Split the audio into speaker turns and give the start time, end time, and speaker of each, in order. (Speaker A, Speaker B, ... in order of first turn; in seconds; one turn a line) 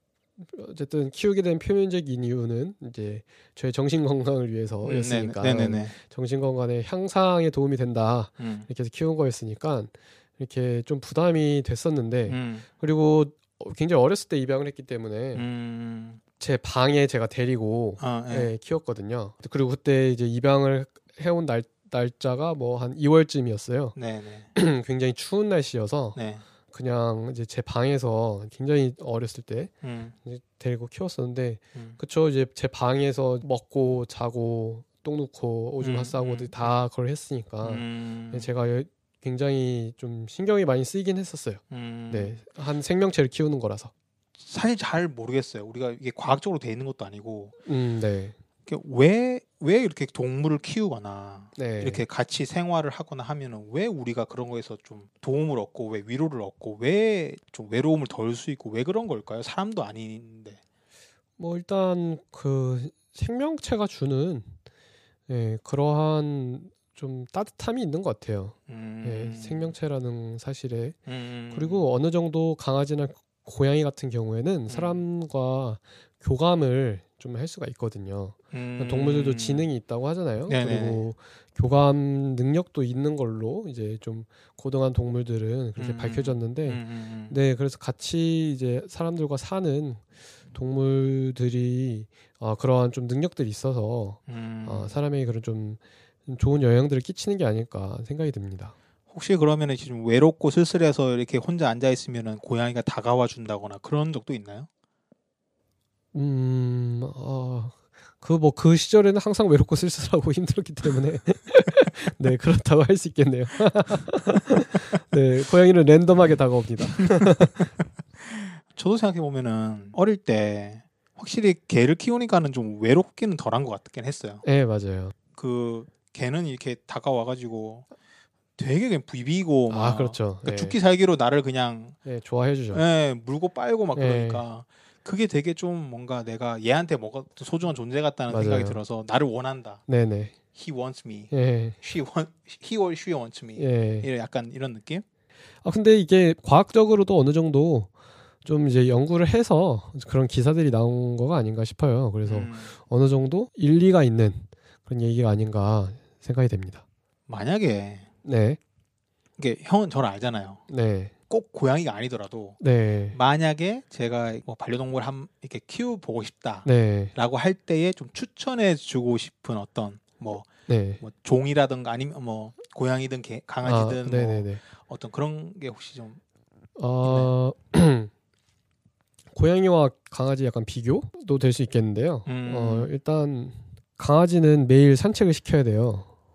Speaker A: 0.4-15.5
Speaker B: 4.8-6.0
Speaker B: 8.4-8.7
Speaker B: 12.3-12.7
Speaker B: 15.3-16.2
Speaker A: 16.4-24.0
Speaker B: 18.0-18.6
Speaker B: 23.9-24.5
Speaker A: 24.6-26.2
Speaker B: 26.1-26.4
Speaker A: 26.7-29.7
Speaker B: 29.8-30.1
Speaker A: 30.2-43.9
Speaker B: 35.8-36.6
Speaker B: 37.6-38.5
Speaker B: 41.7-42.4
Speaker B: 44.4-47.5
Speaker A: 47.7-48.4
Speaker B: 48.7-60.6
Speaker A: 51.6-52.0
Speaker A: 61.4-64.6
Speaker A: 65.3-71.0
Speaker B: 68.7-69.7
Speaker B: 71.1-71.9
Speaker A: 71.5-90.0
Speaker B: 74.7-75.0
Speaker B: 78.5-79.7
Speaker B: 80.5-81.1
Speaker B: 85.8-87.4
Speaker A: 90.5-98.8
Speaker B: 94.3-95.0
Speaker B: 99.1-104.7
Speaker A: 106.1-117.7
Speaker B: 117.2-117.6
Speaker B: 118.2-124.4
Speaker A: 124.4-125.1
Speaker B: 125.4-127.9
Speaker B: 128.6-132.0
Speaker A: 129.7-130.8
Speaker A: 132.1-132.8
Speaker B: 132.7-139.8
Speaker A: 133.9-134.5
Speaker A: 138.3-138.8
Speaker A: 139.9-140.3
Speaker B: 140.6-145.1
Speaker A: 141.3-141.8
Speaker A: 143.6-144.1
Speaker A: 145.6-147.9
Speaker A: 148.4-156.8
Speaker B: 152.2-152.8
Speaker B: 157.3-158.1
Speaker A: 158.2-158.6
Speaker B: 159.4-160.6
Speaker A: 160.7-161.1
Speaker B: 161.3-162.6
Speaker A: 162.6-163.2
Speaker B: 163.1-170.5
Speaker A: 166.7-167.1
Speaker A: 170.7-171.0
Speaker B: 171.0-176.2
Speaker A: 173.6-174.6
Speaker A: 176.8-178.1
Speaker B: 177.0-177.3
Speaker A: 179.3-186.1
Speaker B: 182.3-182.9